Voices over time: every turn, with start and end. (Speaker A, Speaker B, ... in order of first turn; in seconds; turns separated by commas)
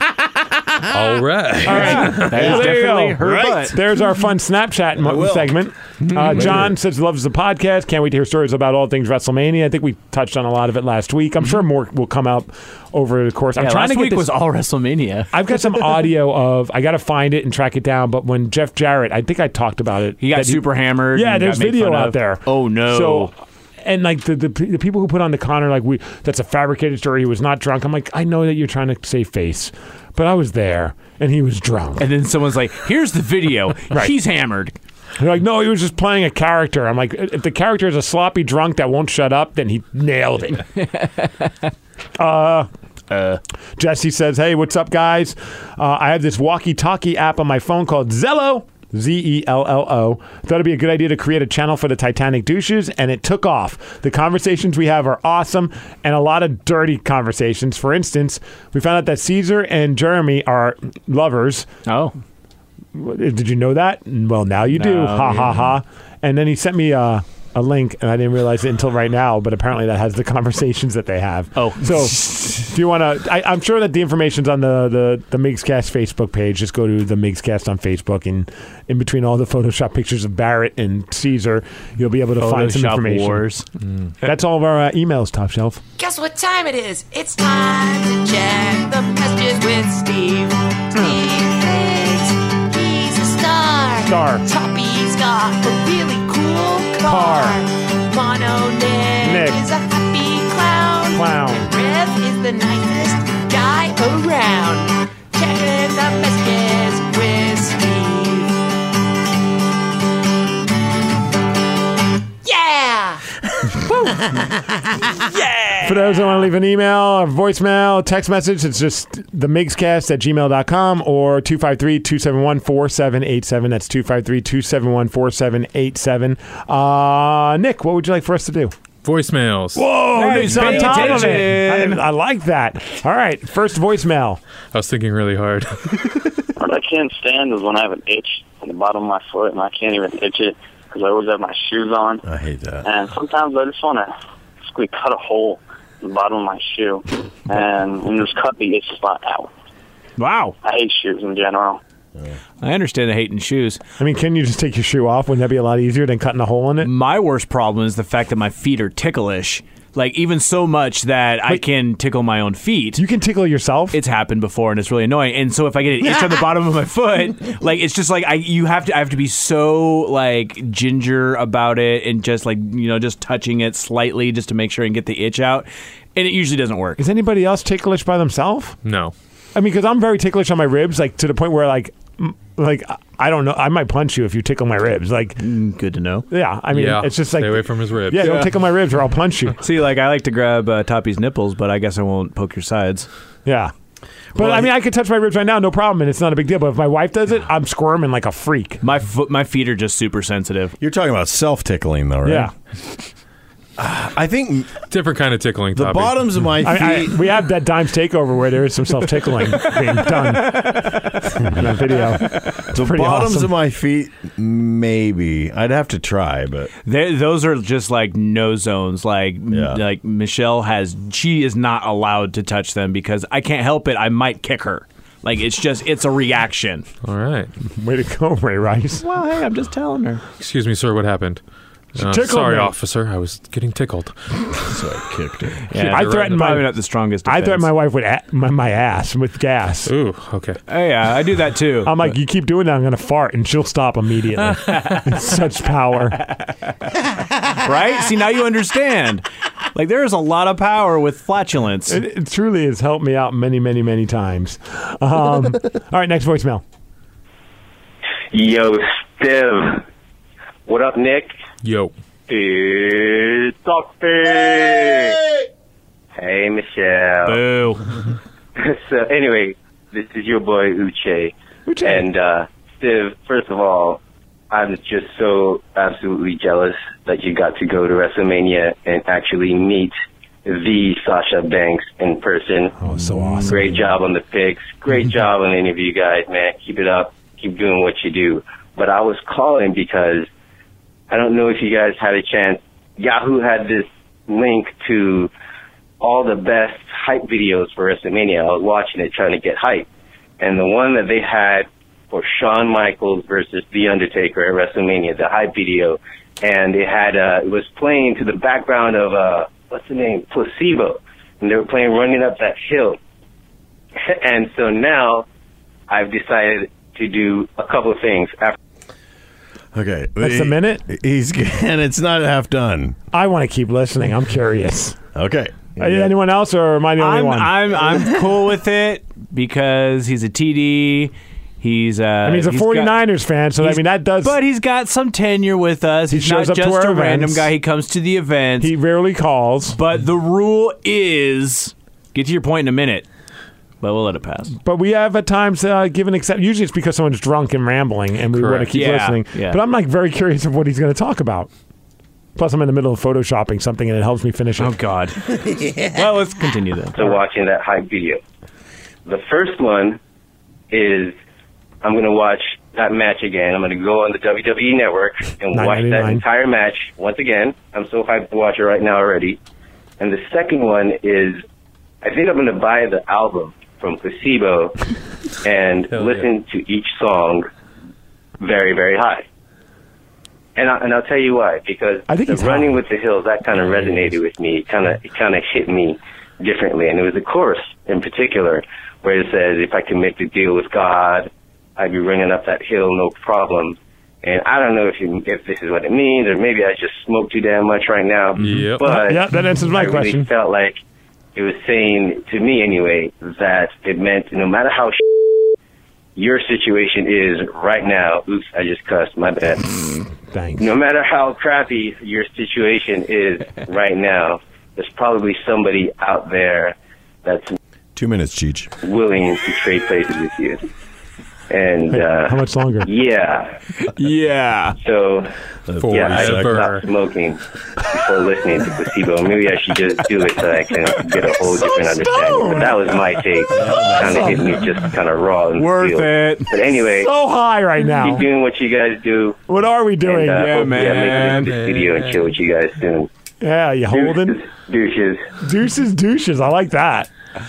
Speaker A: 0.9-2.4, Speaker B: 1.6-14.3, Speaker C: 1.8-3.8, Speaker D: 2.3-3.7, Speaker D: 5.0-5.6, Speaker C: 6.1-6.7, Speaker C: 13.6-15.3, Speaker B: 15.3-32.1, Speaker C: 20.2-23.3, Speaker C: 32.0-34.8, Speaker B: 35.2-40.6, Speaker C: 40.8-41.5, Speaker B: 42.2-42.7, Speaker C: 43.1-43.4, Speaker B: 43.8-61.7, Speaker C: 61.9-62.1, Speaker B: 62.9-83.5, Speaker C: 64.7-65.7, Speaker C: 71.6-72.2, Speaker C: 82.4-83.7, Speaker B: 84.2-85.8, Speaker E: 86.0-108.6, Speaker B: 94.0-94.5, Speaker B: 97.0-97.6, Speaker B: 99.2-99.6, Speaker B: 101.1-101.7, Speaker E: 112.4-113.2, Speaker C: 115.3-116.4, Speaker B: 115.8-128.7, Speaker A: 129.0-129.9, Speaker B: 129.8-134.4, Speaker C: 130.1-132.0, Speaker A: 134.7-136.2, Speaker F: 136.6-142.2, Speaker D: 142.2-142.9, Speaker F: 142.8-144.1, Speaker F: 144.7-149.5, Speaker C: 150.2-150.6, Speaker F: 150.6-151.8, Speaker C: 152.6-153.8, Speaker B: 154.0-156.9, Speaker C: 156.8-163.0, Speaker B: 163.0-164.0, Speaker C: 163.9-177.0, Speaker B: 177.0-178.8, Speaker A: 178.8-179.1, Speaker B: 179.6-185.4, Speaker C: 185.4-186.3, Speaker B: 186.3-189.6, Speaker A: 186.7-188.4, Speaker C: 188.1-188.5, Speaker C: 189.6-193.1, Speaker B: 193.5-193.7, Speaker B: 194.4-198.8, Speaker C: 194.4-194.7, Speaker C: 198.8-200.8, Speaker D: 200.8-202.5, Speaker B: 202.2-202.5, Speaker D: 203.8-204.7, Speaker A: 204.9-206.4, Speaker D: 205.7-207.2, Speaker B: 206.6-210.9, Speaker C: 210.4-211.1, Speaker B: 211.4-213.5, Speaker C: 212.3-212.7, Speaker D: 212.7-216.7, Speaker C: 216.8-226.8, Speaker D: 219.5-219.8, Speaker A: 227.0-227.5, Speaker B: 227.8-229.1, Speaker C: 229.0-230.2, Speaker A: 230.4-231.4, Speaker A: 232.0-234.2, Speaker B: 232.0-232.7, Speaker D: 234.7-235.7, Speaker C: 235.7-237.7, Speaker B: 235.8-236.7, Speaker A: 235.9-236.4, Speaker B: 237.2-239.9, Speaker A: 239.8-240.6, Speaker C: 240.7-242.1, Speaker B: 241.8-246.2, Speaker C: 244.7-245.0, Speaker C: 247.6-249.2, Speaker C: 249.8-252.0, Speaker B: 251.9-256.6, Speaker G: 258.3-259.8, Speaker G: 260.7-261.3, Speaker A: 261.6-261.9, Speaker G: 262.3-265.2, Speaker G: 266.2-267.4, Speaker C: 267.2-267.9, Speaker G: 268.6-274.0, Speaker B: 271.7-272.1, Speaker G: 274.5-279.9, Speaker G: 280.4-282.8, Speaker B: 282.8-283.6, Speaker G: 283.5-290.3, Speaker G: 291.1-295.3, Speaker G: 296.0-299.9, Speaker G: 300.4-313.0, Speaker G: 314.0-315.2, Speaker G: 315.9-318.6, Speaker D: 319.7-323.0, Speaker B: 320.2-320.8, Speaker B: 323.1-325.0, Speaker D: 325.1-326.1, Speaker B: 325.8-327.8, Speaker C: 327.0-333.0, Speaker B: 332.2-334.4, Speaker C: 333.6-338.7, Speaker B: 336.1-337.5, Speaker B: 338.6-339.8, Speaker C: 339.7-343.1, Speaker C: 343.8-344.5, Speaker B: 344.6-351.5, Speaker A: 348.3-348.7, Speaker C: 348.7-349.6, Speaker B: 352.4-354.8, Speaker C: 354.6-355.3, Speaker C: 355.9-357.0, Speaker G: 357.0-358.2, Speaker G: 359.1-360.0, Speaker G: 360.7-361.1, Speaker G: 361.8-369.4, Speaker B: 365.5-366.2, Speaker G: 370.0-371.4, Speaker G: 372.0-374.8, Speaker G: 375.4-377.5, Speaker A: 375.9-376.3, Speaker G: 378.4-379.2, Speaker G: 380.6-400.8, Speaker B: 382.1-382.8, Speaker A: 398.4-399.0, Speaker B: 398.8-400.3, Speaker G: 401.4-405.0, Speaker G: 406.2-409.8, Speaker B: 410.3-410.6, Speaker G: 410.6-417.5, Speaker D: 417.9-418.7, Speaker G: 418.8-420.6, Speaker G: 421.5-423.6, Speaker B: 421.9-422.9, Speaker C: 424.0-424.8, Speaker G: 424.8-425.3, Speaker D: 425.7-426.7, Speaker A: 425.8-426.9, Speaker G: 425.9-437.1, Speaker B: 432.3-432.7, Speaker D: 433.5-434.4, Speaker B: 434.1-434.5, Speaker C: 435.6-436.5, Speaker B: 437.0-438.2, Speaker G: 438.0-439.4, Speaker B: 439.5-440.7, Speaker G: 440.0-443.1, Speaker C: 440.3-441.5, Speaker A: 441.4-442.3, Speaker B: 443.4-444.4, Speaker G: 443.9-445.3, Speaker B: 445.4-447.1